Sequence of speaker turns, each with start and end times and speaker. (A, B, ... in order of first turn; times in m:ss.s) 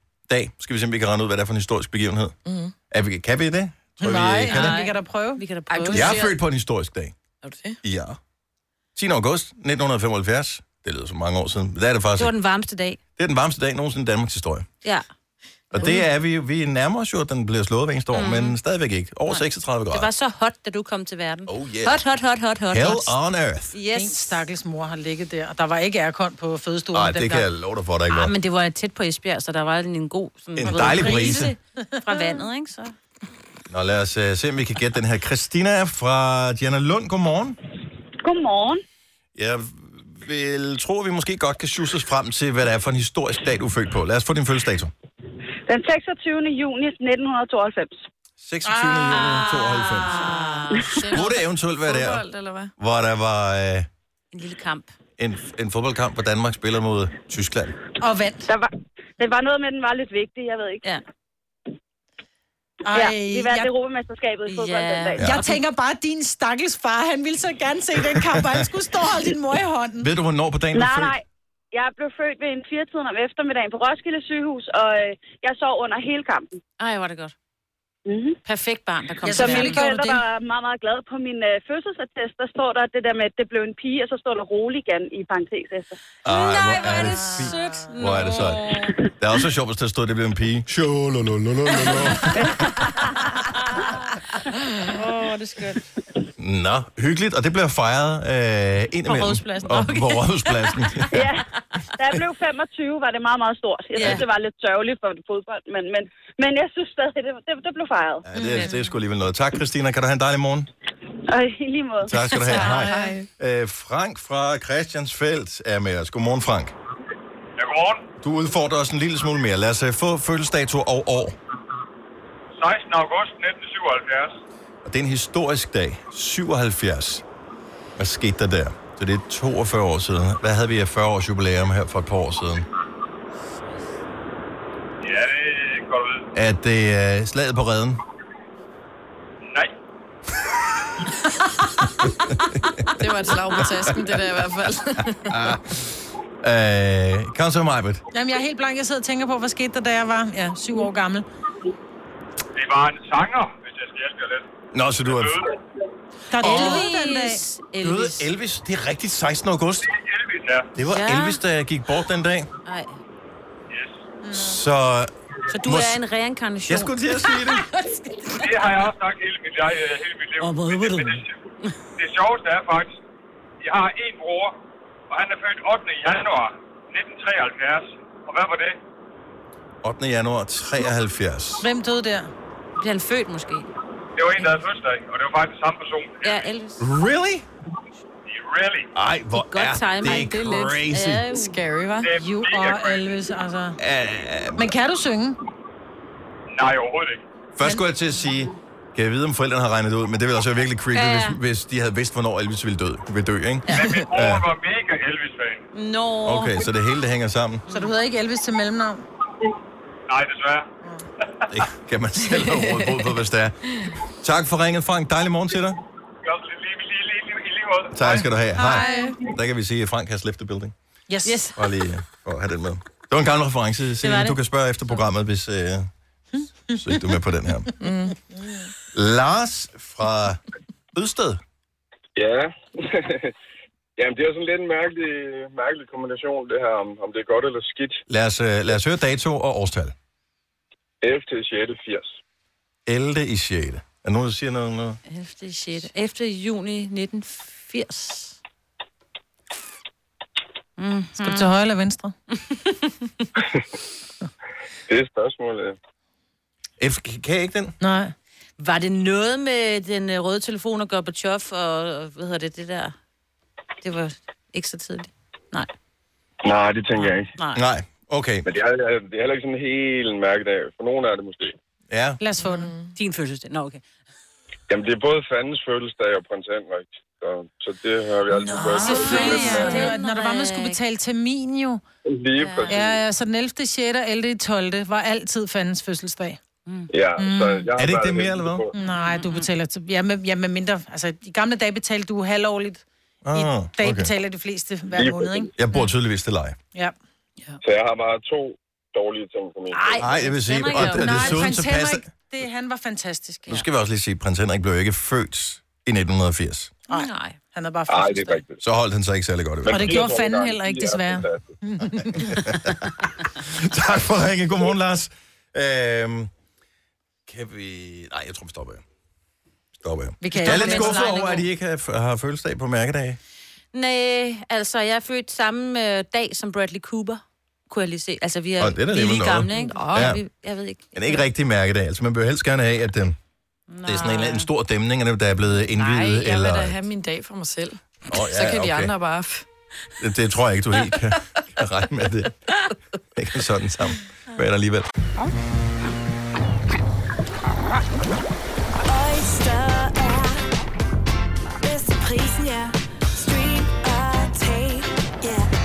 0:00.3-0:02.3 A
0:02.4-0:02.7 B
0:02.9-0:04.8 A
0:04.0-0:06.1 C
0:04.5-0:06.2 D
0:05.7-0:06.4 B
0:05.9-0:07.1 A
0:07.4-0:07.8 B
0:07.8-0:08.2 A
0:09.0-0:12.3 A
0:12.2-0:13.0 D
0:13.2-0:14.6 A
0:15.7-0:20.1 A
0:15.7-0:16.0 B
0:18.1-0:18.6 D
0:19.3-0:23.1 D
0:21.5-0:22.0 A
0:22.7-0:23.7 A
0:23.7-0:24.4 D
0:23.9-0:27.4 C
0:26.9-0:28.3 A
0:28.1-0:32.9 D
0:30.5-0:31.5 A
0:30.6-0:32.4 C
0:33.7-0:37.6 A
0:38.2-0:38.8 E
0:39.3-0:44.9 A
0:45.7-0:48.0 E
0:48.4-0:50.2 A
0:48.6-0:50.6 C
0:49.8-0:51.0 D
0:50.9-0:52.2 A
0:51.0-0:52.7 B
0:52.8-0:53.9 A
0:54.3-0:54.9 D
0:55.2-0:57.8 A
0:58.0-0:58.5 C
0:58.5-1:00.8 E
1:02.8-1:03.7 C
1:02.9-1:05.2 E
1:04.4-1:05.6 D
1:05.2-1:10.1 C
1:10.0-1:11.2 A
1:10.7-1:11.2 E
1:11.7-1:16.5 E
1:16.8-1:17.3 D
1:18.0-1:18.4 E
1:18.4-1:20.2 D
1:19.2-1:20.2 C
1:19.3-1:26.0 E
1:26.2-1:28.7 A
1:26.2-1:29.0 D
1:26.8-1:27.9 C
1:29.2-1:32.7 A
1:34.9-1:35.8 C
1:36.4-1:41.3 A
1:39.1-1:40.3 C
1:41.2-1:41.4 E
1:42.0-1:48.2 E
1:43.9-1:44.2 D
1:44.0-1:44.2 A
1:48.2-1:50.7 A
1:48.4-1:48.8 C
1:48.4-1:48.7 D
1:51.3-1:52.1 E
1:52.0-1:56.7 A
1:52.5-1:53.3 B
1:52.6-1:52.9 D
1:57.6-1:58.1 F
1:58.2-2:01.4 A
2:02.6-2:04.4 F
2:04.8-2:07.2 A
2:08.0-2:12.6 A
2:15.0-2:16.2 F
2:16.3-2:18.0 A
2:22.0-2:22.3 A
2:23.0-2:25.3 B
2:26.4-2:28.0 A
2:28.1-2:31.2 C
2:32.6-2:34.5 F
2:34.7-2:35.4 A
2:35.0-2:35.4 F
2:36.3-2:37.4 C
2:36.4-2:38.3 D
2:36.4-2:36.8 A
2:37.8-2:39.8 A
2:40.1-2:40.7 F
2:40.8-2:42.5 A
2:40.9-2:41.4 D
2:42.6-2:43.0 D
2:44.2-2:44.6 C
2:44.3-2:45.1 A
2:45.5-2:48.8 D
2:45.6-2:46.0 A
2:46.7-2:47.6 A
2:48.4-2:51.3 F
2:50.4-2:51.7 D
2:52.0-2:53.0 F
2:53.6-2:54.6 F
2:55.1-2:58.8 F
2:59.8-3:01.7 A
3:01.6-3:02.3 C
3:02.8-3:03.7 D
3:04.2-3:06.4 F
3:04.3-3:04.6 D
3:06.2-3:06.9 D
3:06.8-3:07.4 A
3:08.3-3:08.9 F
3:08.9-3:11.3 A
3:09.3-3:11.5 D
3:10.1-3:12.1 B
3:12.0-3:13.1 F
3:12.2-3:13.8 C
3:13.8-3:14.7 A
3:14.6-3:15.4 C
3:16.5-3:17.2 F
3:17.6-3:24.5 A
3:20.9-3:21.4 D
3:23.7-3:25.6 F
3:23.7-3:24.0 B
3:25.7-3:26.6 D
3:26.2-3:27.6 A
3:27.7-3:29.0 C
3:30.1-3:30.7 F
3:31.5-3:33.6 A
3:34.2-3:35.8 A
3:36.2-3:38.2 F
3:37.9-3:40.7 A
3:38.5-3:39.1 C
3:38.7-3:39.2 B
3:41.1-3:41.4 C
3:41.2-3:41.6 D
3:41.5-3:45.9 A
3:44.0-3:44.4 D
3:46.7-3:47.7 A
3:47.8-3:48.2 B
3:48.9-3:50.4 A
3:50.9-3:51.4 A
3:52.2-3:53.3 G
3:54.0-3:58.0 G
3:58.1-3:59.9 A
4:01.0-4:02.2 G
4:02.8-4:05.0 A
4:05.1-4:08.4 D
4:10.8-4:11.5 D
4:11.2-4:12.1 C
4:14.9-4:15.8 G
4:16.8-4:17.7 A
4:17.8-4:18.1 C
4:18.6-4:22.9 D
4:23.8-4:25.7 D
4:26.4-4:27.3 G
4:26.9-4:27.6 D
4:27.5-4:28.5 A
4:28.4-4:31.6 G
4:31.9-4:32.2 A
4:32.2-4:32.7 C
4:32.4-4:33.8 D
4:32.5-4:32.9 B
4:34.7-4:39.9 G
4:38.3-4:40.8 D
4:38.4-4:41.8 C
4:42.0-4:43.0 G
4:42.4-4:42.9 D
4:42.6-4:46.4 C
4:46.9-4:48.7 G
4:47.2-4:47.6 C
4:47.8-4:48.6 A
4:48.7-4:55.5 C
4:48.8-4:49.4 D
4:53.2-4:54.1 A
4:54.9-4:55.5 G
4:55.6-4:56.6 A
4:57.6-5:00.0 G
4:59.7-5:01.4 D
4:59.7-5:03.6 C
5:00.0-5:02.1 A
5:03.5-5:06.7 A
5:06.9-5:07.4 D
5:06.9-5:08.4 C
5:07.9-5:08.6 G
5:08.6-5:10.1 A
5:09.6-5:11.4 G
5:09.6-5:12.4 C
5:12.4-5:12.7 A
5:13.4-5:16.3 A
5:17.3-5:18.8 A
5:19.8-5:23.2 A
5:20.2-5:21.4 C
5:20.4-5:21.3 D
5:23.7-5:31.2 D
5:28.6-5:30.2 A
5:30.9-5:33.1 A
5:33.7-5:34.5 D
5:33.8-5:36.8 A
5:35.8-5:39.4 B
5:38.1-5:38.9 A
5:40.0-5:42.3 A
5:43.2-5:44.8 A
5:48.8-5:50.5 H
5:51.6-5:55.5 H